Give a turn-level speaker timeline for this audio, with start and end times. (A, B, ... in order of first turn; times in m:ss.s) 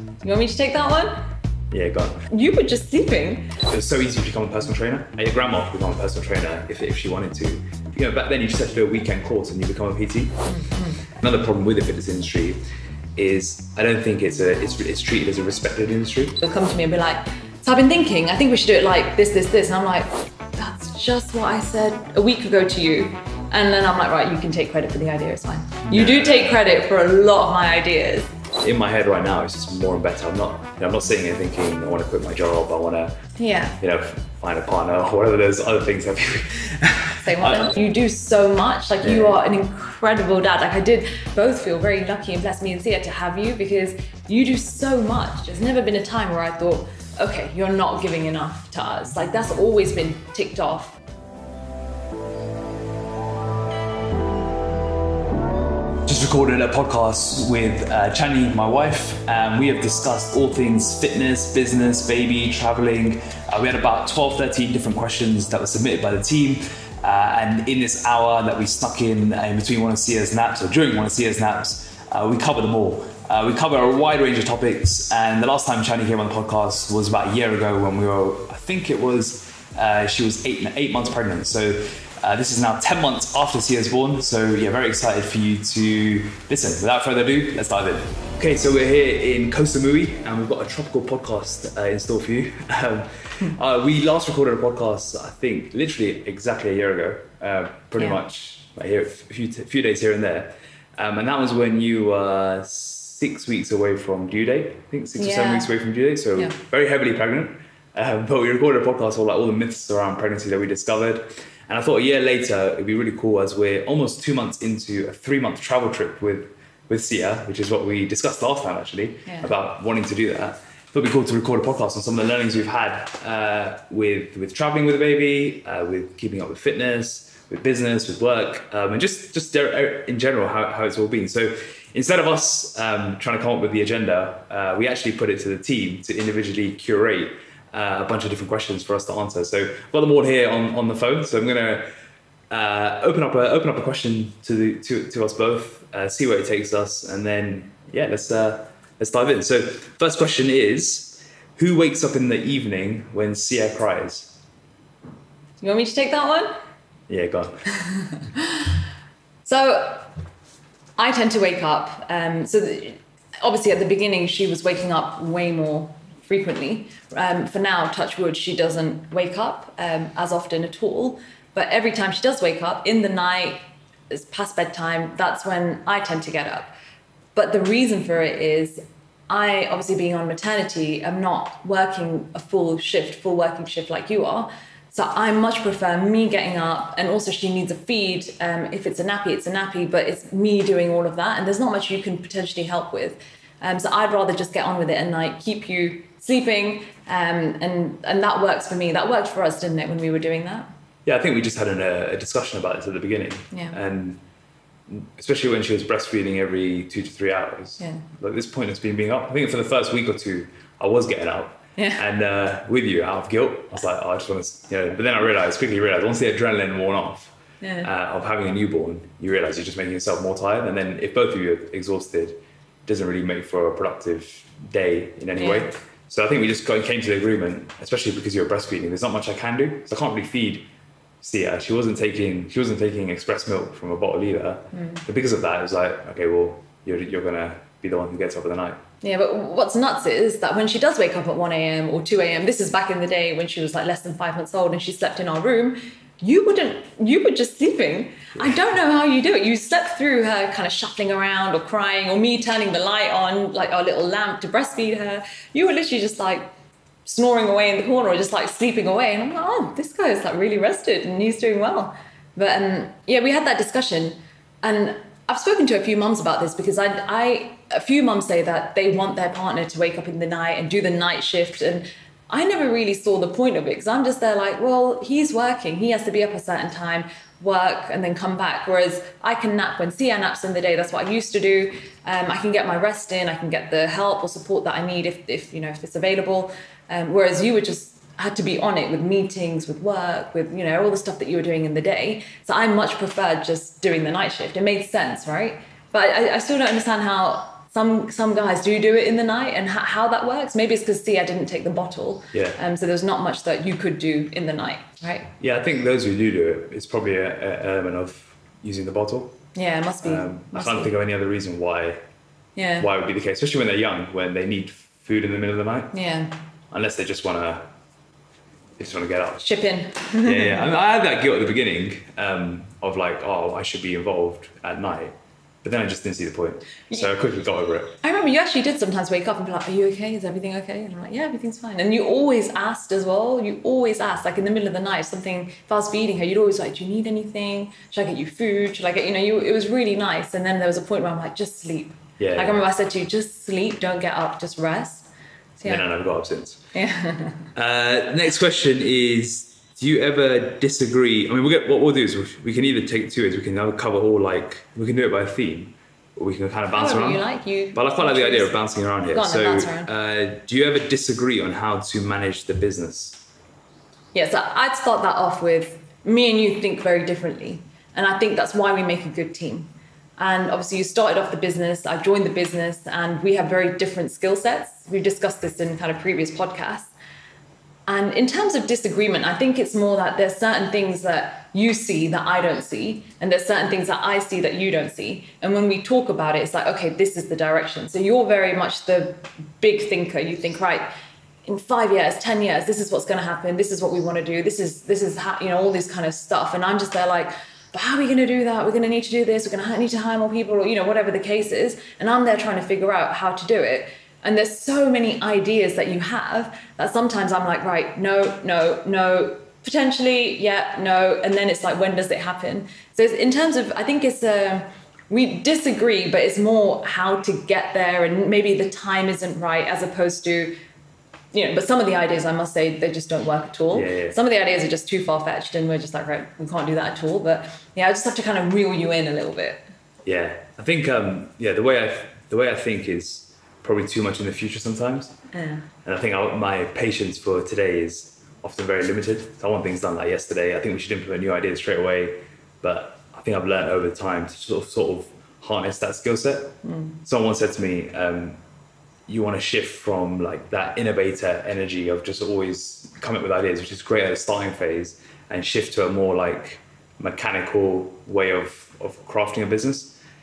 0:00.2-0:01.2 A
0:01.7-0:02.3 B
0:02.3-0:03.6 A
0:03.7-0:10.4 B
0:10.5-0:11.0 A
0:11.0-0:12.6 B
0:13.2-0:16.4 B
0:16.4-0:28.3 A
0:25.9-0:26.5 B
0:28.6-0:33.2 B
0:33.4-0:33.8 A
0:33.8-0:37.7 B
0:37.2-0:51.0 A
0:39.0-0:39.4 B
0:56.1-2:21.9 B
1:45.2-1:45.7 A
1:59.3-1:59.5 A
2:22.5-2:34.4 B
2:35.6-2:36.5 A
2:37.1-2:37.7 B
2:37.8-2:38.8 A
2:39.4-2:40.1 A
2:41.0-2:56.7 A
2:57.4-3:20.7 A
3:21.0-3:24.2 B
3:23.5-3:23.8 A
3:24.9-3:50.7 B
3:31.8-3:32.0 A
3:37.6-3:37.9 A
3:45.4-3:45.7 A
3:51.2-3:58.8 B
3:54.7-3:55.0 A
3:59.0-4:16.5 A
4:17.1-5:05.3 A
5:02.3-5:02.6 B
5:05.4-5:09.4 B
5:09.6-5:10.9 A
5:10.0-5:12.0 B
5:12.6-5:12.9 A
5:12.8-5:15.9 B
5:15.9-5:16.3 A
5:16.7-5:17.7 B
5:18.8-5:19.5 B
5:19.4-5:20.7 A
5:20.2-5:28.0 B
5:28.0-5:45.1 A
5:42.2-5:42.6 B
5:45.6-5:45.8 A
5:45.6-5:46.6 B
5:46.7-5:47.5 A
5:47.6-5:57.2 B
5:56.7-5:59.9 A
5:57.7-6:03.3 B
6:04.1-6:16.9 A
6:17.9-6:30.9 A
6:31.5-7:00.6 A
7:01.3-7:09.6 A
7:03.7-7:04.2 B
7:10.0-7:15.2 B
7:15.3-7:15.7 A
7:15.8-7:28.4 B
7:26.6-7:27.0 A
7:29.1-7:40.0 B